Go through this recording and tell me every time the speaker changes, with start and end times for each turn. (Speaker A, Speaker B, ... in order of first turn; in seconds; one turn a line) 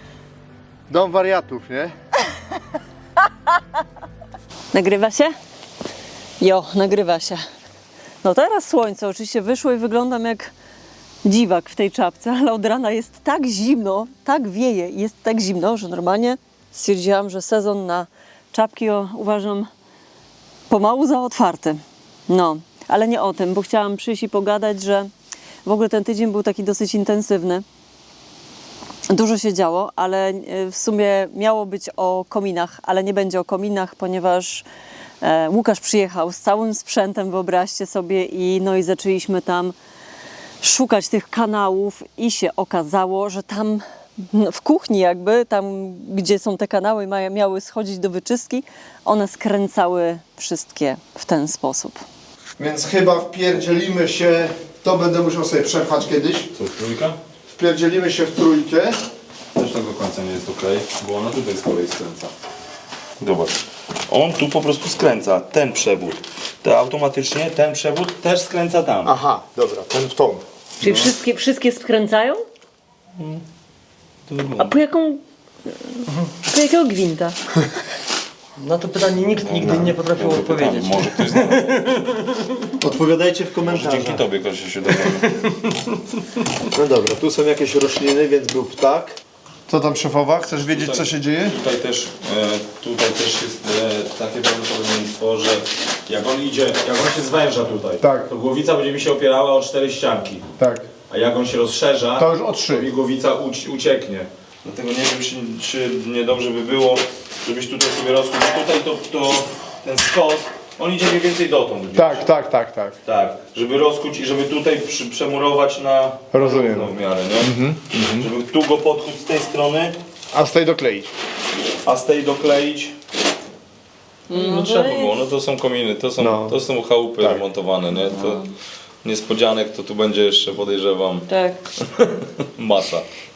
Speaker A: 0.9-1.9
Speaker B: 4.7-5.3
Speaker B: 6.4-7.4
Speaker B: 8.2-10.5
Speaker B: 11.2-19.7
Speaker B: 20.7-25.1
Speaker B: 25.6-27.6
Speaker B: 29.1-34.6
Speaker B: 35.2-39.8
Speaker B: 40.6-52.0
Speaker A: 52.6-56.5
Speaker C: 56.5-57.2
Speaker A: 57.5-58.9
Speaker C: 59.5-62.3
Speaker C: 63.2-63.6
Speaker C: 64.1-69.1
Speaker A: 69.0-70.4
Speaker B: 70.8-72.4
Speaker C: 74.3-74.7
Speaker B: 74.6-77.4
Speaker D: 78.6-82.3
Speaker C: 79.3-81.8
Speaker A: 82.8-84.2
Speaker C: 83.6-85.4
Speaker A: 86.7-89.2
Speaker A: 89.7-91.6
Speaker C: 90.7-100.5
Speaker A: 98.0-98.3
Speaker A: 100.6-100.9
Speaker C: 101.1-112.2
Speaker A: 102.2-102.9
Speaker A: 111.9-113.0
Speaker C: 113.0-119.9
Speaker A: 116.3-118.3
Speaker A: 120.3-121.1
Speaker C: 121.8-122.9
Speaker B: 124.3-125.2
Speaker C: 124.3-128.4
Speaker A: 126.2-126.6
Speaker C: 129.0-131.3
Speaker B: 131.3-131.6
Speaker C: 131.9-133.0